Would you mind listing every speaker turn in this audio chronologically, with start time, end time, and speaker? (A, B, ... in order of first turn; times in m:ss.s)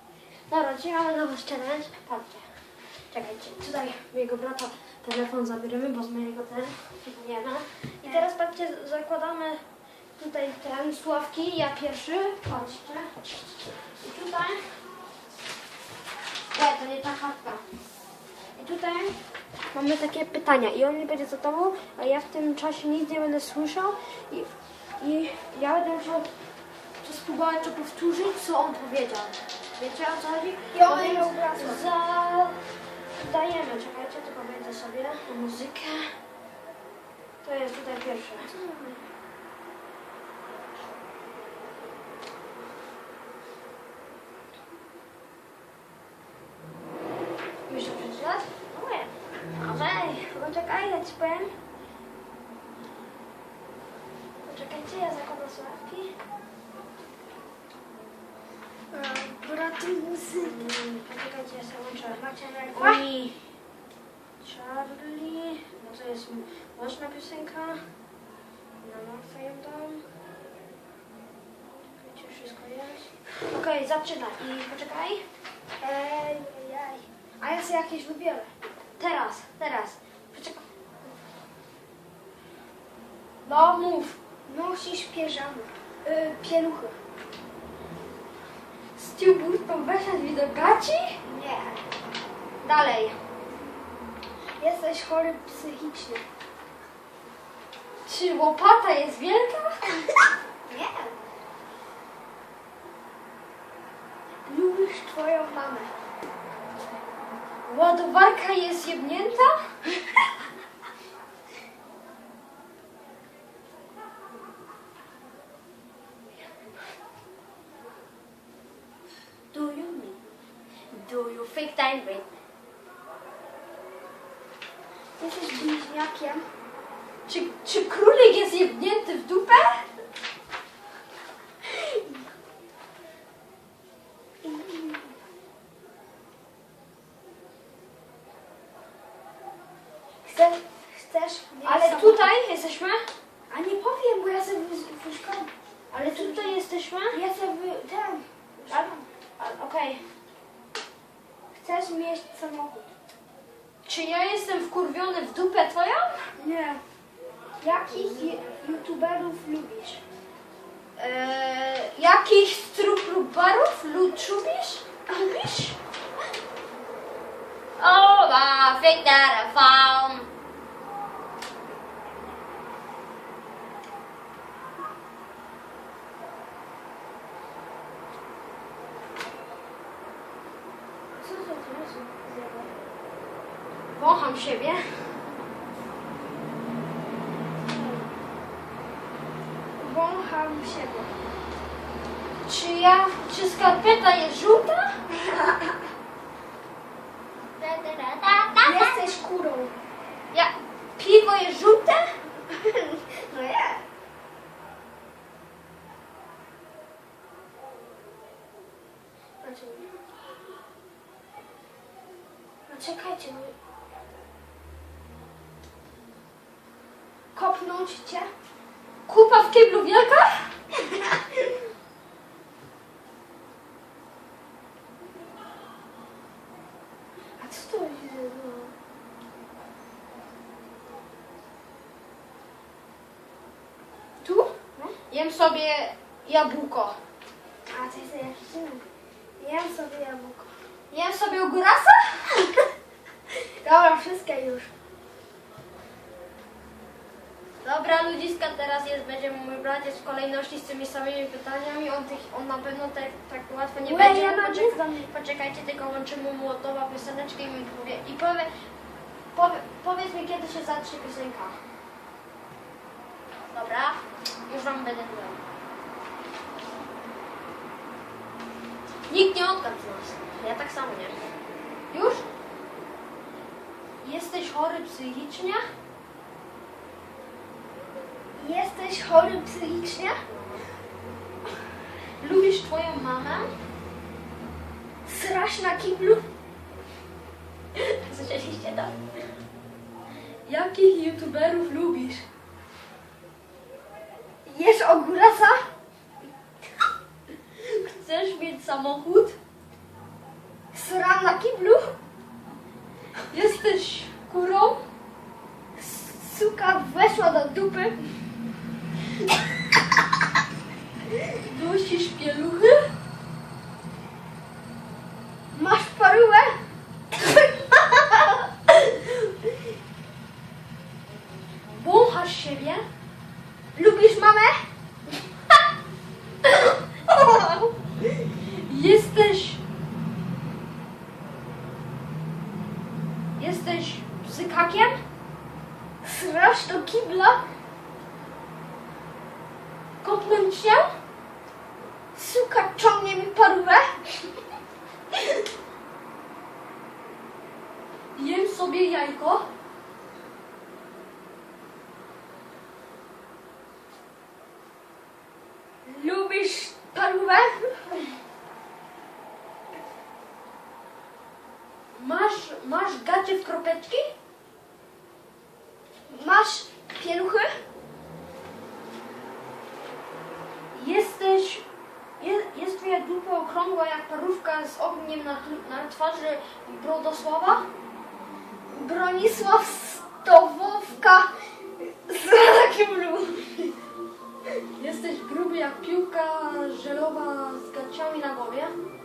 0:00.5-0:02.4 A
0:03.1-0:09.6 A
0:10.2-0:13.1 A
0:14.0-0:14.6 A
0:16.5-0:17.6 A
0:18.6-0:19.1 B
0:19.7-0:26.3 A
0:27.0-0:32.6 A
0:30.7-0:31.8 B
0:33.1-0:36.1 A
0:37.4-0:38.5 A
0:38.4-0:39.0 B
0:47.7-0:50.6 A
0:50.6-0:51.5 B
0:54.4-0:56.1 A
0:58.9-1:00.7 B
1:00.4-1:03.4 A
1:02.2-1:03.0 B
1:04.4-1:07.8 A
1:08.8-1:10.0 A
1:12.1-1:15.2 A
1:15.8-1:18.5 B
1:19.0-1:20.6 A
1:23.4-1:24.2 A
1:24.4-1:27.0 B
1:29.0-1:31.2 A
1:31.2-1:31.8 B
1:32.6-1:33.2 A
1:34.6-1:36.2 B
1:38.0-1:39.9 A
1:40.6-1:41.2 B
1:44.4-1:45.9 B
1:47.7-1:49.5 A
1:59.5-2:00.2 A
2:00.9-2:02.3 A
2:05.2-2:06.5 B
2:07.3-2:09.9 A
2:14.4-2:15.2 B
2:20.2-2:22.3 B
2:21.6-2:23.1 A
2:23.5-2:26.6 B
2:25.9-2:27.2 A
2:27.1-2:29.0 B
2:28.7-2:30.0 A
2:31.5-2:32.9 B
2:33.8-2:36.2 A
2:36.4-2:36.8 B
2:37.6-2:40.0 B
2:41.0-2:44.8 A
2:45.1-2:45.8 B
2:47.8-2:50.3 A
3:01.1-3:02.7 B
3:03.9-3:05.2 A
3:09.8-3:11.1 B
3:12.4-3:15.0 A
3:15.2-3:15.7 B
3:17.6-3:19.0 A
3:18.6-3:19.7 B
3:20.3-3:22.1 A
3:22.5-3:23.8 B
3:29.4-3:29.9 B
3:32.7-3:33.5 B
3:37.3-3:38.3 B
3:39.1-3:40.5 A
3:47.4-3:48.7 B
3:54.2-3:54.9 B
3:55.1-3:57.0 A
3:57.7-3:58.8 B
3:59.4-4:00.5 B
4:00.9-4:02.5 A
4:03.6-4:04.7 B
4:07.6-4:18.5 A
4:13.8-4:15.1 B
4:19.3-4:21.6 A
4:23.5-4:25.4 A
4:29.1-4:31.1 A
4:31.9-4:32.2 A
4:34.0-4:35.6 A
4:38.4-4:40.2 B
4:40.2-4:40.6 A
4:42.2-4:43.5 A
4:45.0-4:46.2 B
4:47.8-4:48.9 A
4:50.4-4:52.2 A
4:54.4-4:55.6 B
4:57.6-4:59.4 A
5:00.7-5:01.9 B
5:03.3-5:04.8 A
5:05.8-5:08.0 B
5:11.2-5:12.9 A
5:15.5-5:16.6 B
5:21.7-5:22.8 A
5:23.7-5:24.6 B
5:26.6-5:27.7 A
5:28.5-5:29.6 A
5:33.4-5:35.0 A
5:36.0-5:37.4 B
5:40.0-5:40.9 A
5:42.1-5:44.0 B
5:48.1-5:49.5 A
5:55.8-5:58.1 B
6:01.9-6:04.1 A
6:06.1-6:07.5 B
6:10.7-6:11.6 A
6:12.2-6:17.7 A
6:18.7-6:23.7 B
6:24.8-6:28.7 A